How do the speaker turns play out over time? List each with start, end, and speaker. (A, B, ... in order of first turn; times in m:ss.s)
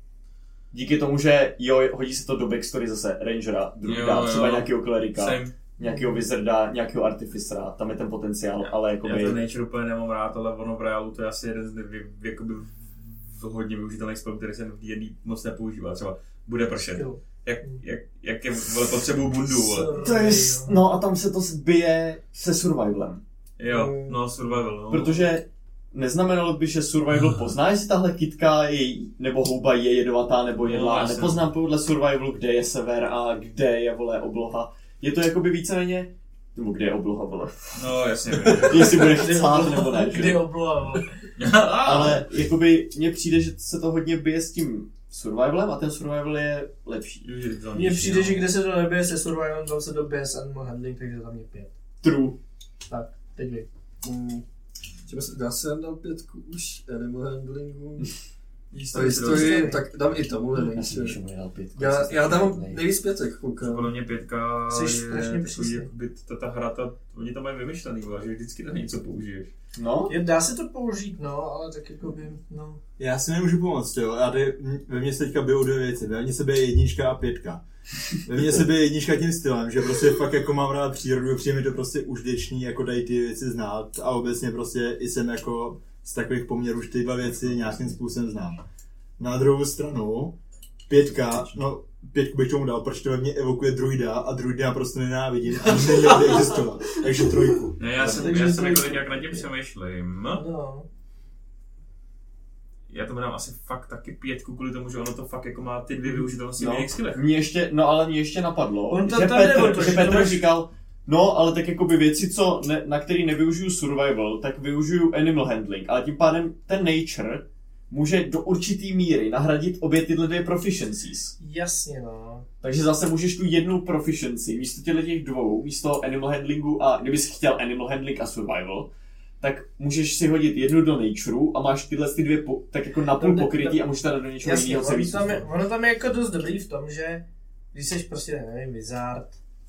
0:00.7-0:09.4 A
0:03.8-0:05.5 B
0:05.8-0:06.2 C
0:08.6-0:20.0 B
0:16.8-0:17.8 C
0:19.6-0:20.8 C
0:20.0-0:23.2 A
0:23.6-0:25.3 B
0:23.7-0:24.2 D
0:24.9-0:37.7 A
0:30.6-0:31.5 B
0:37.7-0:39.1 B
0:38.5-0:40.4 A
0:38.8-0:41.1 C
0:41.4-0:42.2 B
0:41.8-0:47.2 A
0:47.2-0:48.5 B
0:47.7-0:51.7 C
0:52.0-0:52.4 A
0:52.9-0:53.7 C
0:54.0-0:54.4 D
0:55.1-0:58.1 D
0:58.7-0:59.8 B
0:58.9-1:01.2 D
0:59.2-0:59.8 C
1:00.5-1:02.8 A
1:01.7-1:03.9 D
1:03.6-1:09.5 B
1:04.7-1:05.9 C
1:09.8-1:10.1 A
1:10.1-1:12.8 C
1:13.0-1:17.6 E
1:18.2-1:28.6 E
1:29.2-1:30.4 E
1:30.9-1:38.1 E
1:35.7-1:36.5 C
1:37.8-1:40.4 B
1:38.0-1:39.4 C
1:40.3-1:40.9 C
1:42.9-1:47.2 B
1:46.6-2:01.3 A
1:48.9-1:50.4 C
2:01.4-2:02.5 C
2:02.6-2:08.9 A
2:09.4-2:15.5 A
2:13.2-2:13.8 C
2:14.4-2:19.4 C